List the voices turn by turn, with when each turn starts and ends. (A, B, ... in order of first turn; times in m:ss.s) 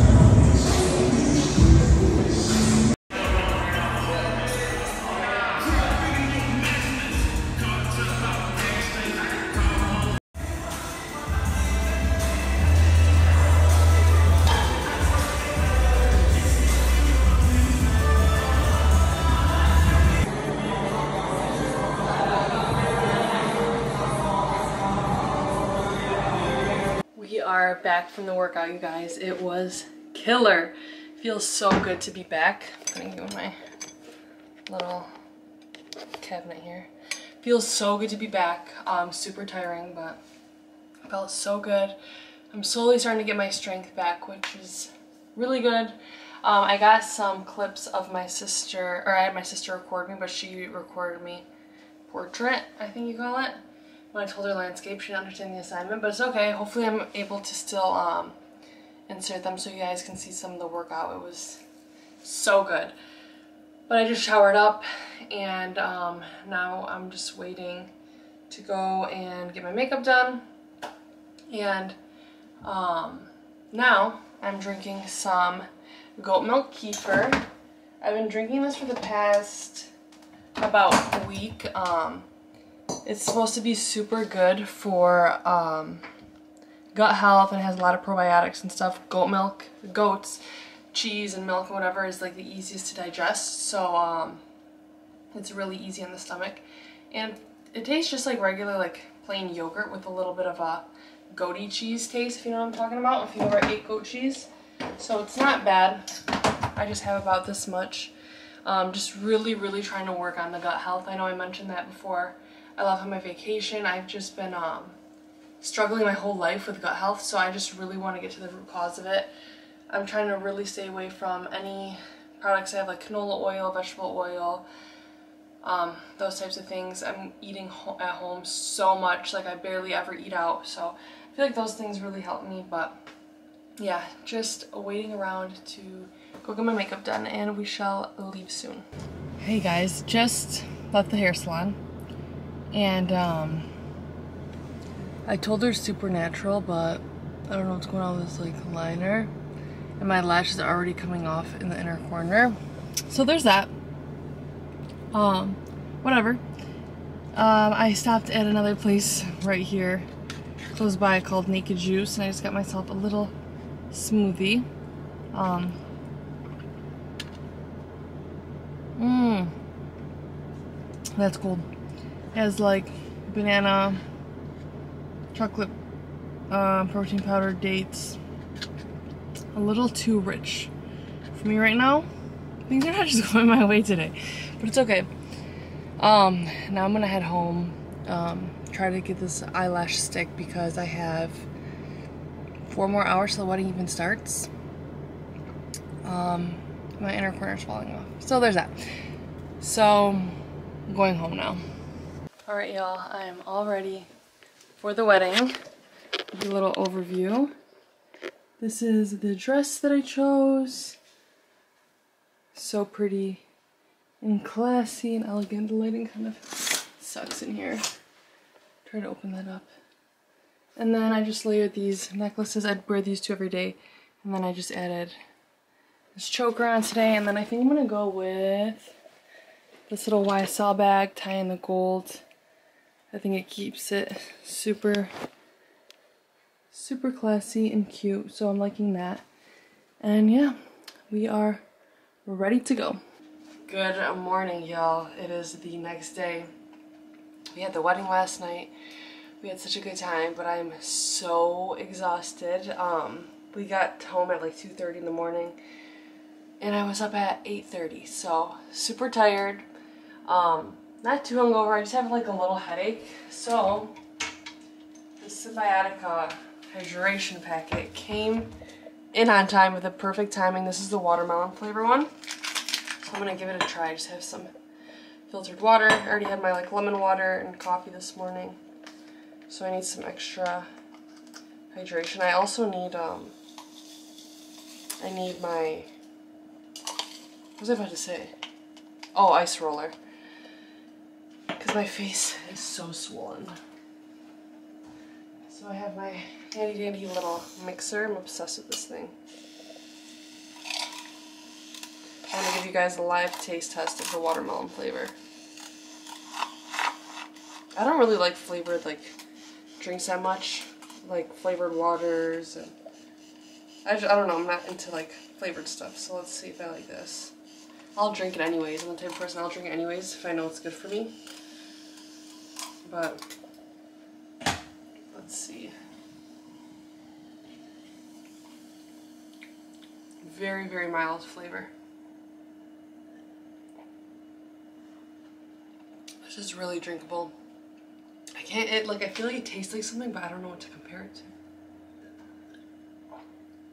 0:27.1-0:33.6 A
0:34.7-0:35.1 A
0:36.2-0:36.9 A
0:37.4-0:40.2 A
0:41.0-0:42.0 A
0:42.5-0:51.4 A
0:52.1-0:53.6 A
0:54.1-0:58.4 A
0:59.1-1:01.6 A
1:02.2-1:02.9 A
1:03.9-1:07.9 A
1:08.5-1:10.4 A
1:11.5-1:12.0 A
1:12.6-1:17.4 A
1:18.0-1:19.9 A
1:20.6-1:22.3 A
1:23.0-1:26.1 A
1:26.9-1:34.4 A
1:35.3-1:46.2 A
1:46.7-1:55.0 A
1:55.6-1:59.3 A
1:59.9-2:04.6 A
2:05.6-2:13.0 A
2:13.8-2:18.9 A
2:19.4-2:21.8 A
2:22.7-2:23.7 A
2:25.2-2:29.3 A
2:30.0-2:32.6 A
2:33.1-2:33.7 A
2:35.1-2:36.4 A
2:37.3-2:40.1 A
2:40.7-2:43.3 A
2:43.9-2:44.7 A
2:45.3-2:45.8 A
2:49.0-2:49.5 A
2:51.2-2:51.6 A
2:52.3-2:54.0 A
2:55.3-2:55.7 A
2:56.5-2:58.2 A
2:59.5-3:00.7 A
3:01.3-3:02.1 A
3:02.7-3:05.1 A
3:06.0-3:11.5 A
3:12.6-3:14.5 A
3:16.0-3:19.0 A
3:19.6-3:21.6 A
3:22.5-3:24.1 A
3:24.8-3:25.6 A
3:26.3-3:27.5 A
3:28.6-3:31.0 A
3:32.5-3:33.4 A
3:34.2-3:37.8 A
3:38.8-3:39.7 A
3:40.8-3:45.2 A
3:46.1-3:49.0 A
3:49.9-3:52.2 A
3:53.1-3:55.1 A
3:56.7-3:59.2 A
4:00.0-4:00.6 A
4:01.1-4:01.6 A
4:02.2-4:03.0 A
4:03.6-4:06.5 A
4:07.5-4:08.7 A
4:09.4-4:15.6 A
4:16.6-4:19.6 A
4:20.2-4:24.0 A
4:25.2-4:28.5 A
4:29.1-4:32.1 A
4:33.0-4:34.5 A
4:35.3-4:38.6 A
4:39.5-4:40.7 A
4:41.7-4:43.4 A
4:45.0-4:45.9 A
4:47.6-4:48.4 A
4:49.1-4:50.0 A
4:51.5-4:53.6 A
4:55.4-4:59.1 A
5:02.3-5:05.2 A
5:07.8-5:09.2 A
5:09.8-5:12.7 A
5:13.8-5:17.3 A
5:17.9-5:21.2 A
5:22.8-5:23.3 A
5:25.1-5:25.7 A
5:30.2-5:31.7 A
5:36.2-5:37.3 A
5:38.3-5:41.3 A